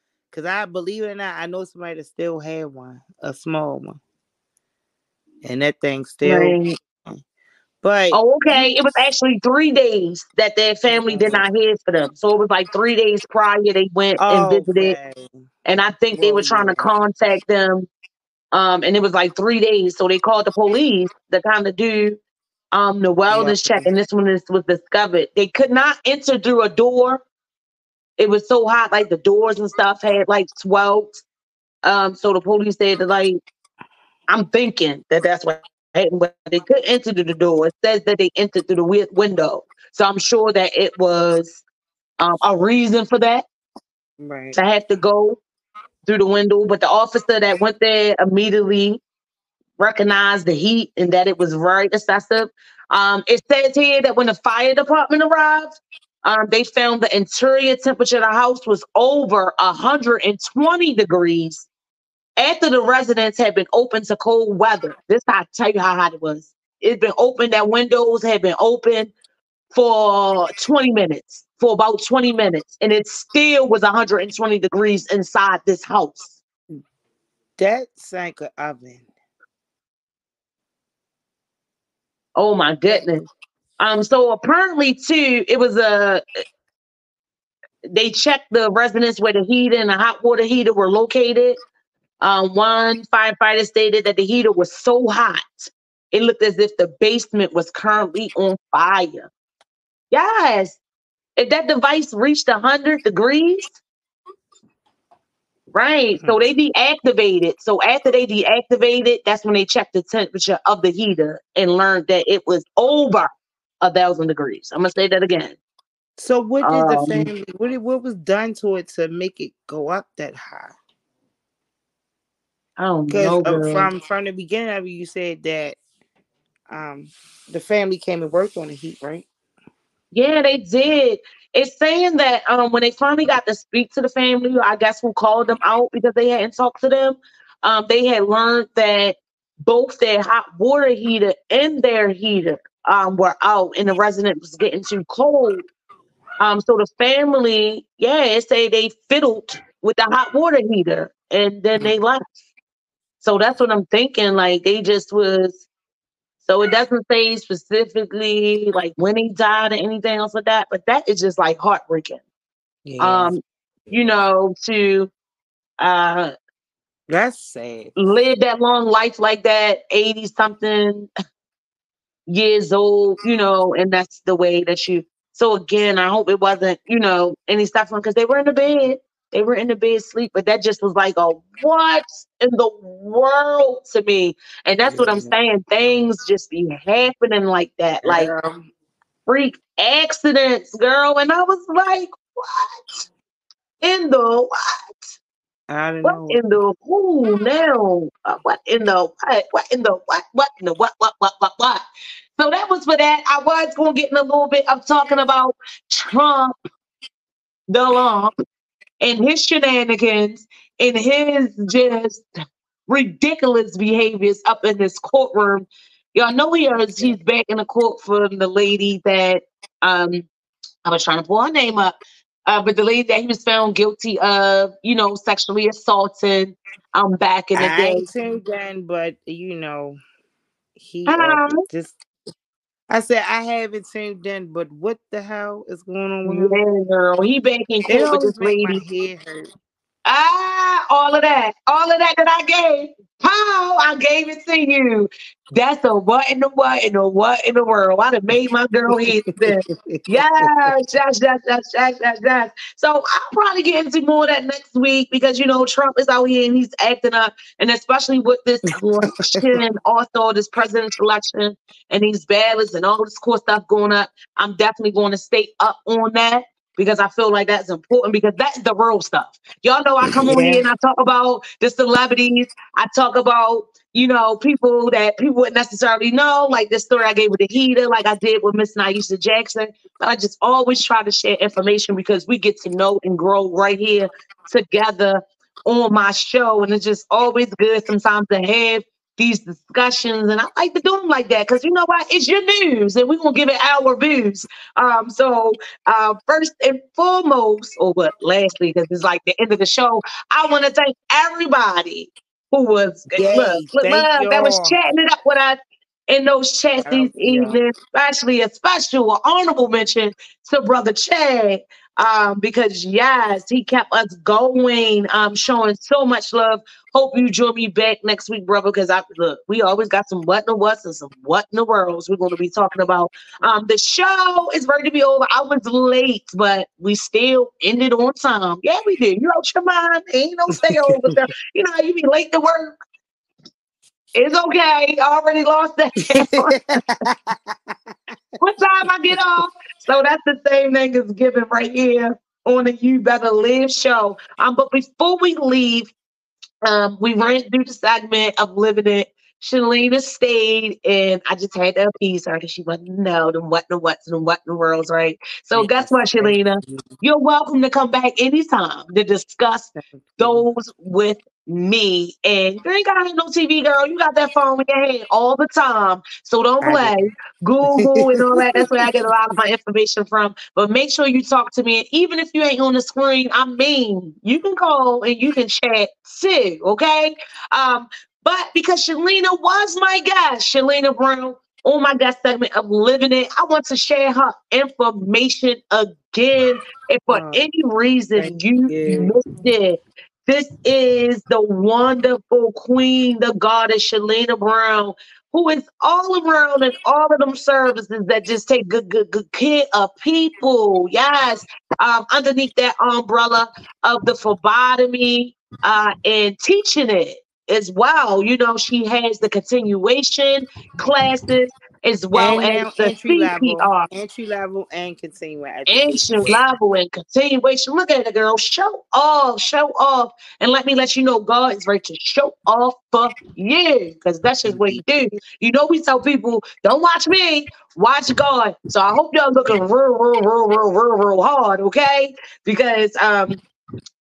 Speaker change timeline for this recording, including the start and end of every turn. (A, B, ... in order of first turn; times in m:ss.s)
0:00.3-0:04.0 A
0:05.4-0:07.2 A
0:06.2-0:06.8 B
0:07.8-0:09.0 A
0:08.1-0:15.0 B
0:10.9-0:11.4 A
0:14.2-0:15.5 A
0:15.6-0:17.9 B
0:16.1-0:16.9 A
0:18.5-0:22.2 B
0:22.7-0:27.2 B
0:23.3-0:23.9 A
0:28.2-0:31.2 B
0:31.8-0:33.4 B
0:34.3-0:41.6 B
0:42.2-0:43.5 B
0:44.2-0:44.6 A
0:44.5-0:45.4 B
0:46.1-0:49.0 B
0:49.8-1:01.7 B
1:02.4-1:09.1 B
1:09.7-1:16.4 B
1:17.6-1:19.1 A
1:22.4-1:23.3 B
1:23.8-1:26.4 B
1:27.9-1:31.6 B
1:32.2-1:39.3 B
1:40.1-1:40.8 B
1:41.4-1:43.8 B
1:45.7-1:53.3 B
1:53.8-1:55.6 B
1:56.2-2:00.7 A
1:56.6-1:57.3 B
2:02.8-2:03.9 B
2:03.1-2:05.8 A
2:06.7-2:09.3 A
2:10.1-2:25.7 B
2:26.4-2:32.2 B
2:33.2-2:35.6 B
2:36.4-2:42.2 B
2:42.8-2:43.4 A
2:43.0-2:45.1 B
2:45.8-2:46.3 B
2:47.1-2:48.0 A
2:48.0-2:51.1 B
2:52.3-3:08.3 B
3:04.8-3:05.5 A
3:08.0-3:08.7 A
3:09.3-3:13.0 B
3:13.8-3:15.0 B
3:15.7-3:16.5 A
3:16.0-3:21.8 B
3:22.4-3:26.6 B
3:27.7-3:28.3 B
3:29.0-3:32.2 B
3:32.9-3:40.3 B
3:40.8-3:48.1 B
3:47.6-3:50.0 A
3:50.8-3:52.0 A
3:51.1-3:51.6 B
3:52.9-3:56.6 A
3:56.2-3:58.8 B
3:57.9-3:59.5 A
4:00.1-5:05.6 B
4:08.9-4:10.7 A
4:19.0-4:19.5 A
4:30.1-4:30.6 A
5:03.1-5:04.8 A
5:06.1-5:32.8 B
5:06.8-5:07.6 A
5:30.7-5:31.1 A
5:34.2-5:36.6 B
5:36.1-5:38.1 A
5:38.4-5:45.9 B
5:46.6-6:53.9 B
5:55.5-5:56.9 A
5:59.8-6:00.4 A
6:06.6-6:07.0 A
6:07.7-6:08.9 A
6:27.1-6:27.4 A
6:28.2-6:29.2 A
6:52.1-6:56.4 A
6:55.7-7:13.4 B
7:04.4-7:04.8 A